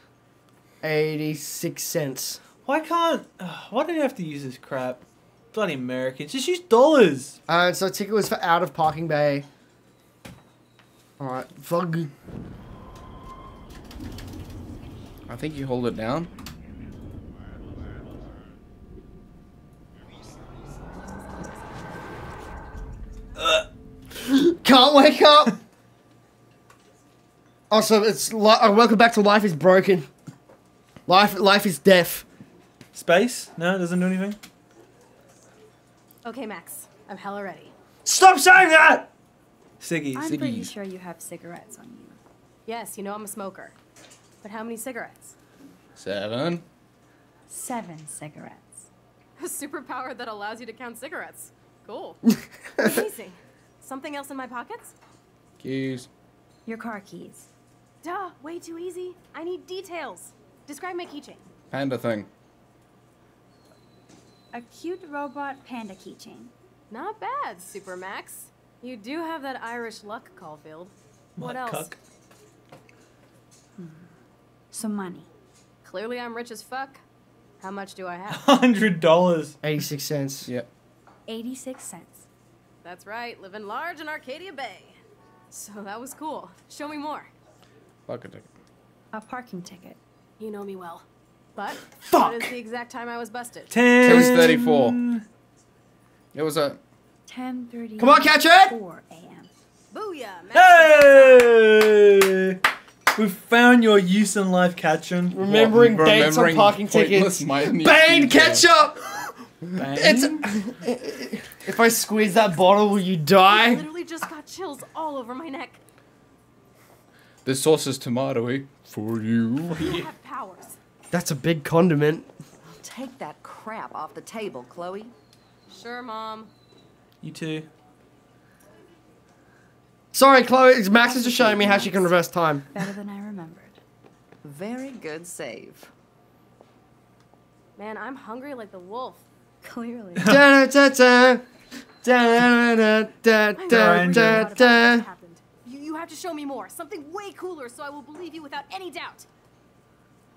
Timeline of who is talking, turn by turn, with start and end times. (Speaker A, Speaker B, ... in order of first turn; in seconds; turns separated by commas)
Speaker A: 0.8-2.4, Speaker B: 2.6-7.4, Speaker A: 7.5-9.5, Speaker A: 11.2-12.1, Speaker C: 15.3-16.3, Speaker A: 24.2-25.6, Speaker A: 27.7-30.1, Speaker A: 31.1-32.3, Speaker B: 32.9-34.4, Speaker D: 36.2-37.7, Speaker A: 38.0-39.1, Speaker B: 39.8-40.2, Speaker E: 40.1-42.2, Speaker C: 40.2-40.7, Speaker D: 42.7-43.8, Speaker D: 44.4-45.4, Speaker C: 46.0-46.6, Speaker E: 47.5-48.9, Speaker D: 49.4-52.2, Speaker A: 52.8-53.0, Speaker D: 52.8-54.9, Speaker C: 55.6-56.1, Speaker E: 56.7-57.5, Speaker D: 58.0-61.4, Speaker C: 61.7-62.3, Speaker E: 64.5-66.5, Speaker D: 66.9-71.9, Speaker B: 71.4-72.0, Speaker E: 73.8-74.1, Speaker E: 74.7-75.3, Speaker D: 75.8-77.0, Speaker D: 77.6-78.5, Speaker B: 78.3-79.6, Speaker A: 79.6-80.5, Speaker E: 81.3-82.3, Speaker D: 82.8-87.3, Speaker C: 88.1-88.5, Speaker E: 89.1-90.0, Speaker D: 90.4-94.0, Speaker A: 92.1-92.5, Speaker B: 93.7-95.2, Speaker C: 94.0-95.0, Speaker C: 96.3-96.8, Speaker E: 97.3-99.5, Speaker A: 98.0-98.8, Speaker D: 99.9-101.6, Speaker B: 100.5-102.6, Speaker B: 103.2-105.4, Speaker A: 105.3-109.3, Speaker C: 105.4-108.7, Speaker B: 109.8-110.5, Speaker A: 109.8-113.9, Speaker D: 113.5-115.8, Speaker C: 117.5-120.1, Speaker D: 119.7-120.8, Speaker A: 121.1-122.3, Speaker F: 122.7-125.1, Speaker D: 125.7-126.5, Speaker B: 127.2-127.7, Speaker A: 130.1-132.7, Speaker E: 131.0-132.1, Speaker E: 132.7-133.8, Speaker F: 134.4-135.9, Speaker D: 137.8-139.2, Speaker E: 139.6-140.4, Speaker B: 140.2-140.4, Speaker A: 140.2-141.4, Speaker A: 142.0-145.1, Speaker D: 143.6-149.3, Speaker B: 143.7-144.5